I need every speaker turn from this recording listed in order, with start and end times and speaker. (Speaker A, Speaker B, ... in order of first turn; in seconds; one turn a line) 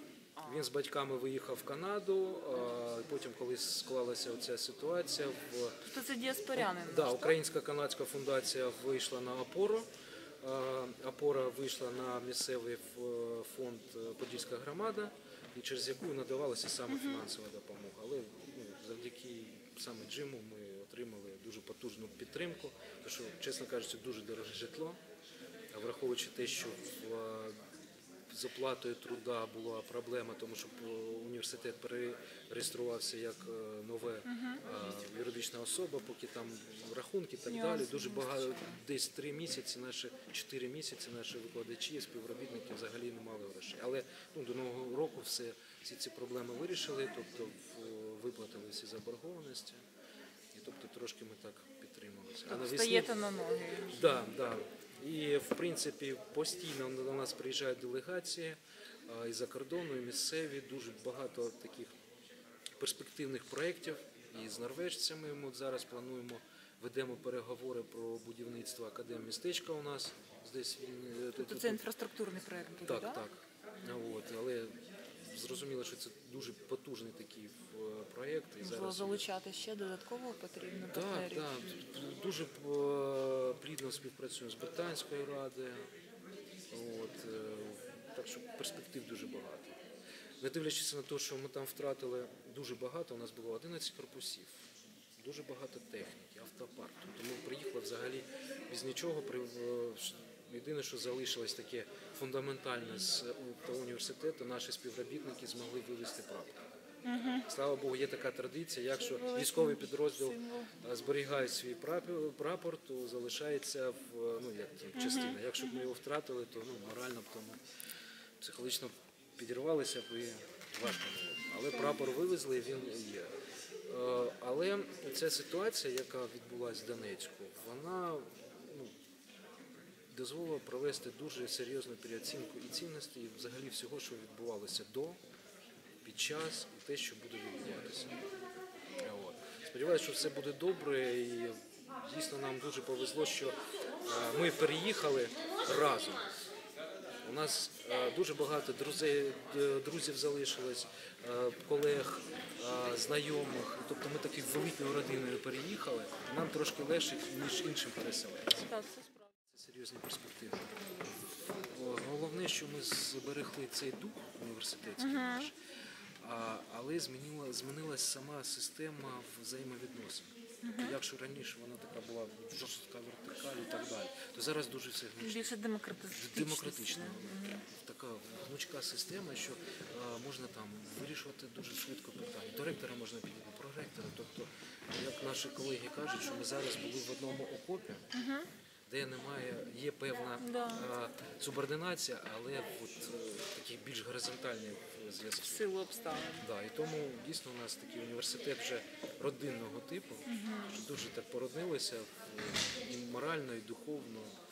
Speaker A: 0.4-0.7
Speaker B: 0.4-5.8
Speaker A: 5.8-7.4
Speaker B: 6.5-9.9
Speaker B: 10.4-25.0
Speaker A: 16.9-17.3
Speaker B: 25.7-27.6
Speaker B: 28.3-49.8
Speaker A: 34.3-34.6
Speaker A: 37.5-38.7
Speaker B: 50.5-53.1
Speaker A: 52.5-54.2
Speaker B: 53.9-62.0
Speaker B: 62.8-71.8
Speaker A: 71.3-73.2
Speaker B: 72.9-79.3
Speaker A: 78.6-81.6
Speaker B: 80.9-85.9
Speaker B: 86.7-89.8
Speaker B: 90.4-94.7
Speaker B: 95.2-106.6
Speaker A: 107.0-107.5
Speaker B: 107.5-117.6
Speaker A: 109.0-110.7
Speaker A: 114.9-115.8
Speaker B: 118.4-123.3
Speaker B: 123.9-128.9
Speaker B: 130.1-135.2
Speaker B: 136.0-138.2
Speaker B: 139.0-146.3
Speaker B: 147.2-158.7
Speaker A: 158.6-159.3
Speaker B: 159.5-160.7
Speaker B: 161.6-165.6
Speaker A: 165.0-165.5
Speaker B: 166.2-175.5
Speaker A: 170.6-171.0
Speaker A: 175.2-177.6
Speaker B: 176.1-188.0
Speaker A: 188.1-188.5
Speaker B: 188.9-195.7
Speaker A: 190.4-190.9
Speaker A: 195.4-196.5
Speaker B: 196.4-204.4
Speaker A: 200.3-200.8